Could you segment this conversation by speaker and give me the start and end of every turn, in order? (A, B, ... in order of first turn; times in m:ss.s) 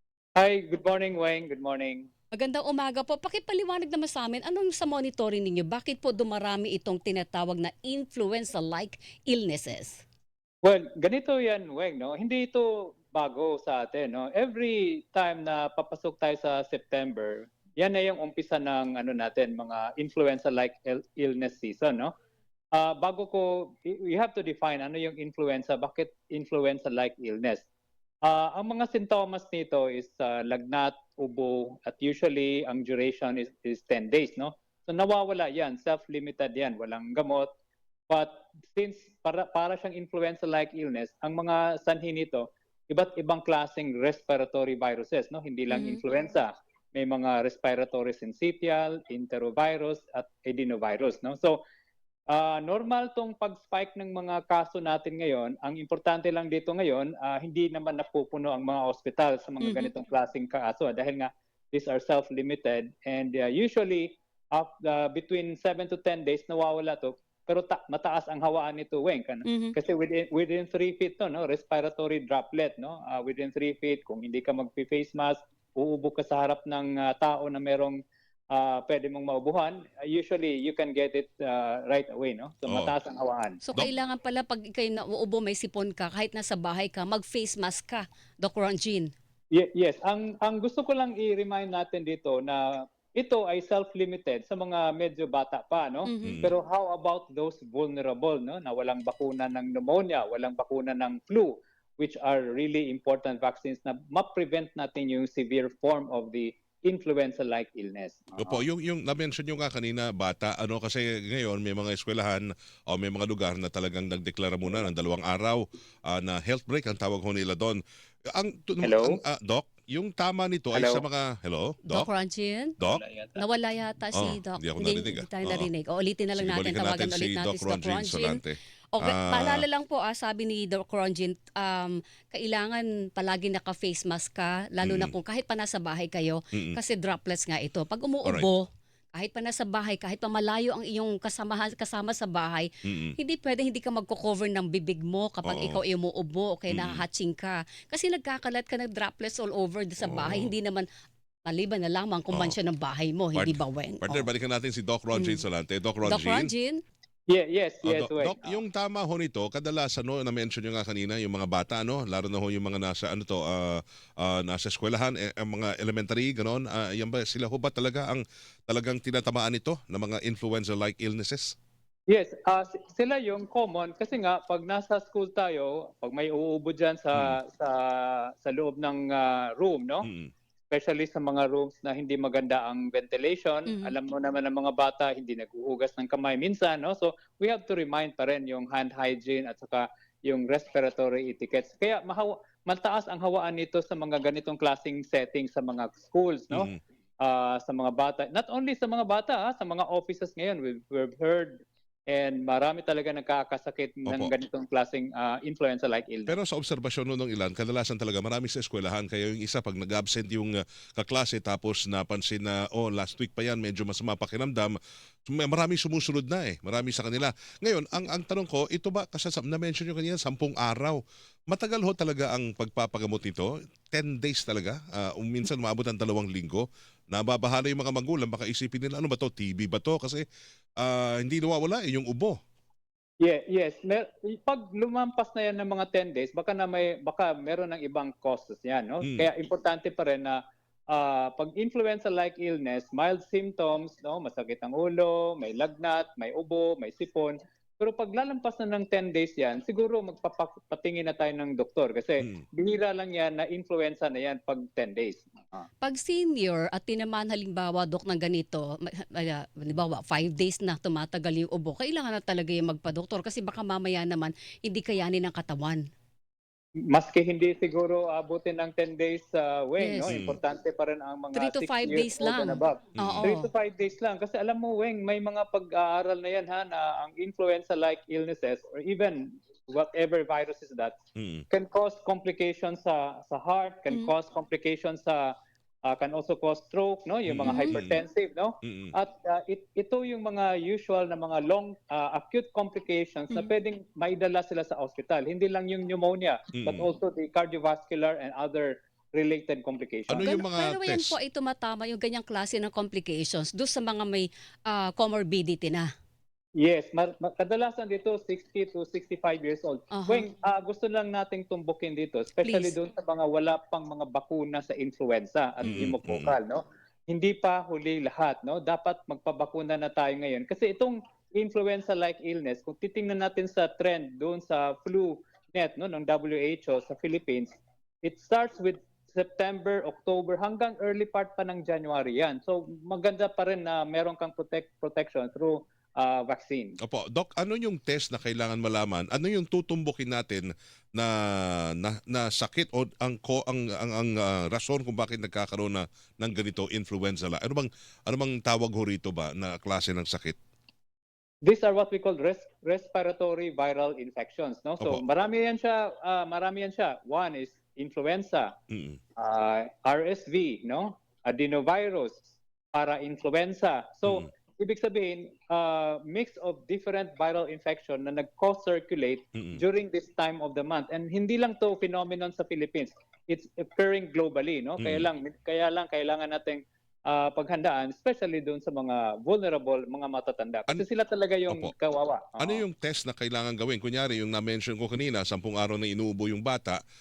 0:00.4-0:02.1 A
0:02.3-0:10.0 B
0:10.6-0:22.1 A
0:22.7-0:27.6 A
0:28.2-0:37.5 A
0:38.1-0:51.6 A
0:45.7-0:46.0 B
0:52.3-1:18.0 A
0:59.6-0:59.9 B
1:09.4-1:09.7 B
1:18.5-1:23.6 A
1:22.7-1:22.9 C
1:23.6-1:29.1 B
1:29.5-1:48.6 A
1:36.0-1:36.5 B
1:36.2-1:36.5 C
1:48.4-2:02.1 C
1:58.8-1:59.2 A
2:00.7-2:01.0 A
2:01.9-2:02.8 B
2:02.8-2:03.4 A
2:03.4-2:08.4 B
2:04.1-2:05.7 C
2:06.4-2:09.6 C
2:08.9-2:30.8 B
2:14.8-2:15.2 C
2:16.5-2:16.8 C
2:22.8-2:23.2 C
2:25.4-2:25.8 C
2:26.7-2:27.0 C
2:30.0-2:30.5 C
2:31.4-2:34.3 B
2:33.3-2:36.5 C
2:35.1-2:35.4 B
2:36.0-2:36.8 B
2:37.3-2:38.6 A
2:37.8-2:51.5 C
2:52.1-3:00.1 A
3:00.0-3:00.3 C
3:00.7-3:26.4 A
3:03.6-3:03.9 B
3:16.5-3:16.8 C
3:24.0-3:24.3 C
3:26.3-3:34.7 C
3:35.3-3:41.0 C
3:41.5-3:50.2 C
3:50.8-3:52.4 C
3:53.2-4:00.4 A
3:59.0-3:59.3 C
4:00.9-4:15.6 A
4:15.8-4:25.8 B
4:26.9-4:41.0 A
4:29.8-4:30.2 B
4:30.1-4:30.4 C
4:31.3-4:33.5 B
4:33.0-4:33.4 C
4:41.2-4:41.4 C
4:41.5-4:45.3 A
4:45.8-5:00.4 A
4:47.3-4:48.0 C
4:47.4-4:47.8 B
4:48.6-4:48.9 C
4:56.5-4:56.9 C
5:00.1-5:01.2 C
5:00.2-5:05.9 B
5:06.6-5:36.8 A
5:09.9-5:10.2 B
5:12.4-5:12.7 B
5:15.6-5:15.9 B
5:15.6-5:16.4 C
5:36.8-5:50.4 C
5:51.4-5:58.5 A
5:58.7-5:59.0 C
5:59.2-6:22.6 A
6:09.3-6:09.6 C
6:14.8-6:15.1 C
6:22.4-6:26.8 C